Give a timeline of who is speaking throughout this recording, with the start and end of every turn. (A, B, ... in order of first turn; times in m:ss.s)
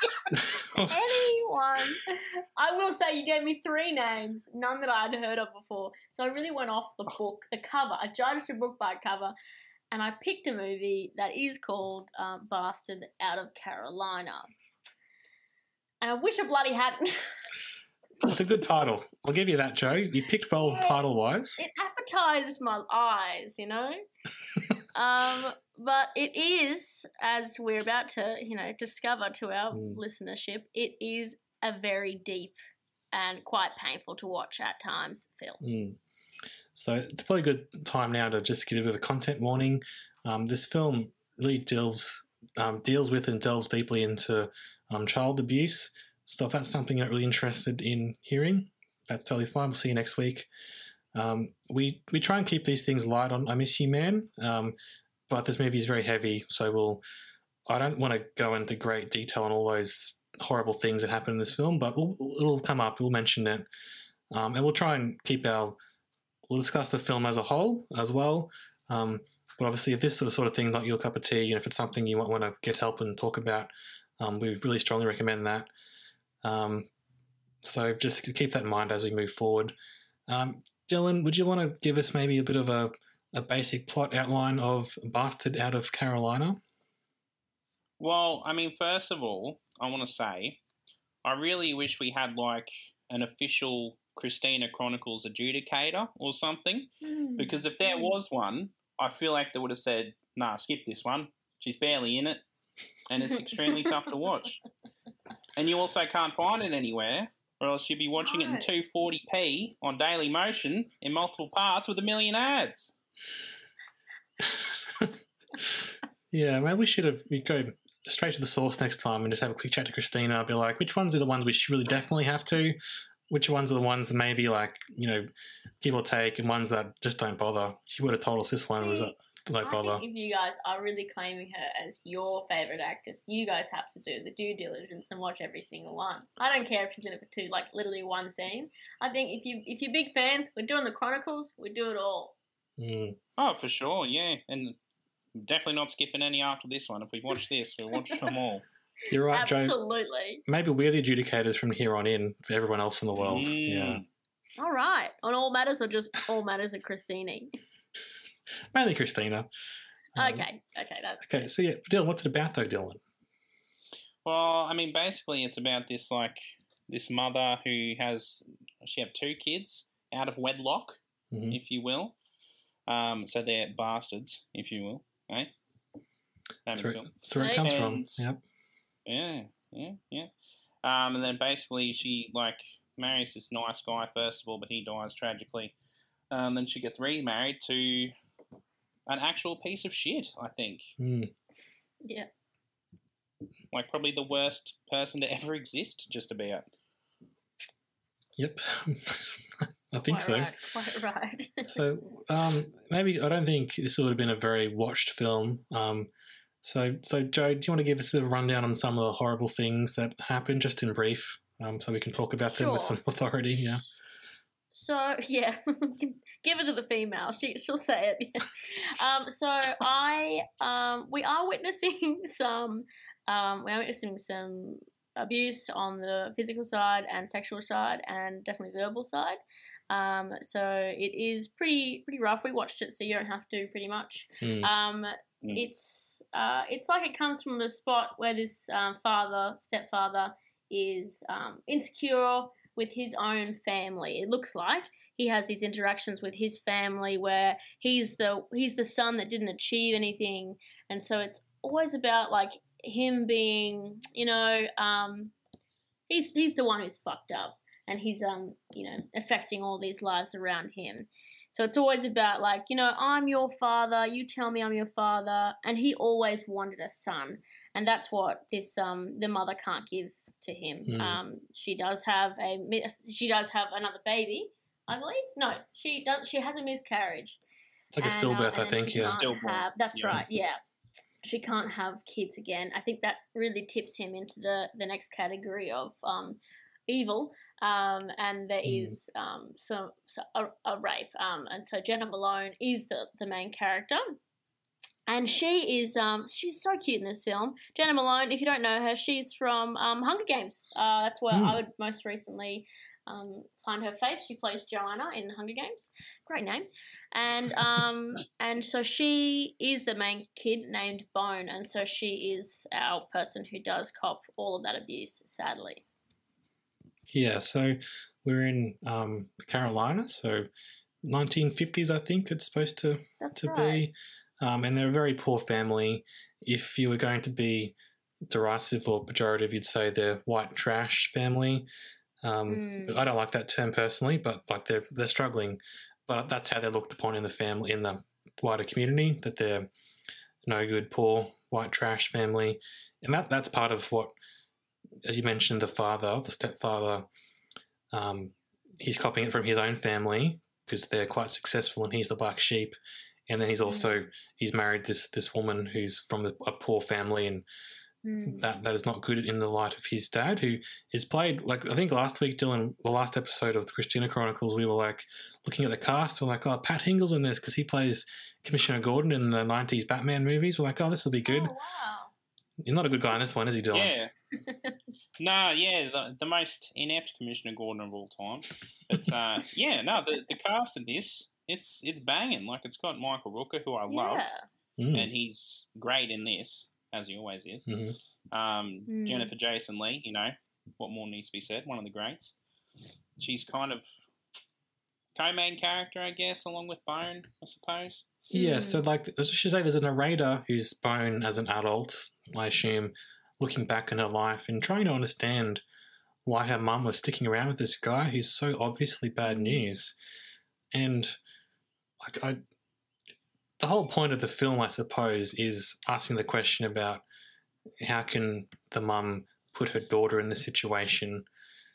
0:00.3-0:01.3 A
0:00.9-0:09.4 B
0:09.9-0:14.5 B
0:16.0-0:17.3 B
0:18.2-0:21.6 A
0:20.6-0:21.0 B
0:21.6-0:24.0 B
0:24.9-0:32.6 B
0:29.7-0:30.0 A
0:33.1-0:35.6 B
0:35.6-0:36.0 A
0:36.8-0:50.5 A
0:51.2-0:54.8 A
0:55.3-0:57.0 A
0:57.7-1:03.7 A
1:04.3-1:05.8 A
1:06.5-1:15.7 A
1:16.4-1:16.9 A
1:17.6-1:19.8 A
1:20.3-1:26.6 A
1:28.0-1:30.6 C
1:31.2-1:42.4 C
1:37.0-1:38.2 B
1:43.1-1:44.6 C
1:43.6-1:44.0 B
1:45.6-1:52.9 C
1:48.2-1:48.7 B
1:54.4-2:02.8 A
2:03.3-2:05.3 A
2:05.8-2:10.0 A
2:08.8-2:22.4 B
2:22.8-2:23.2 A
2:23.4-2:24.8 C
2:25.4-2:28.6 C
2:29.1-2:29.8 A
2:29.3-2:30.4 B
2:30.5-2:34.0 A
2:33.2-2:34.0 C
2:34.6-2:37.5 B
2:38.7-2:39.5 A
2:40.2-2:40.5 A
2:40.2-2:41.5 B
2:41.2-2:43.0 A
2:44.2-2:52.2 C
2:51.3-2:51.6 A
2:52.9-2:55.5 C
2:56.7-2:58.3 C
2:56.7-2:58.4 A
2:57.4-2:57.7 B
2:59.1-3:00.3 C
3:00.8-3:05.7 C
3:06.3-3:08.1 C
3:09.1-3:10.9 C
3:11.0-3:11.3 A
3:12.0-3:12.3 B
3:13.7-3:16.7 C
3:18.4-3:20.5 A
3:20.0-3:21.7 B
3:21.7-3:26.1 A
3:26.6-3:33.8 A
3:32.4-3:33.0 B
3:34.7-3:49.4 B
3:49.9-4:15.3 B
3:54.4-3:54.7 A
4:16.1-4:37.4 B
4:30.9-4:31.2 A
4:37.9-4:39.2 A
4:38.0-4:40.6 B
4:38.9-4:40.2 C
4:41.2-4:54.2 B
4:48.6-4:49.0 A
4:55.1-5:15.8 B
5:01.3-5:01.6 A
5:17.1-5:20.5 A
5:21.0-5:27.8 A
5:23.2-5:23.9 B
5:28.3-5:31.7 A
5:32.2-5:39.7 A
5:32.5-5:33.0 B
5:40.4-5:44.2 A
5:45.0-5:47.1 A
5:47.9-5:52.8 A
5:53.3-5:57.5 A
5:53.7-5:53.9 B
5:58.0-5:58.4 B
5:58.3-6:11.5 A
6:11.3-6:12.1 B
6:12.6-6:13.9 A
6:13.7-6:14.1 C
6:14.5-6:14.8 B
6:15.2-6:24.3 C
6:23.9-6:24.4 B
6:24.8-6:25.1 A
6:24.9-6:27.7 C
6:27.7-6:28.0 A
6:28.3-6:32.3 C
6:28.9-6:29.3 B
6:33.2-6:33.8 C
6:35.2-6:38.1 C
6:38.3-6:45.6 A
6:38.3-6:38.8 B
6:46.2-6:50.0 A
6:49.2-6:49.7 B
6:50.7-6:51.2 A
6:52.0-6:52.4 A
6:53.6-6:57.0 A
6:57.8-7:01.3 A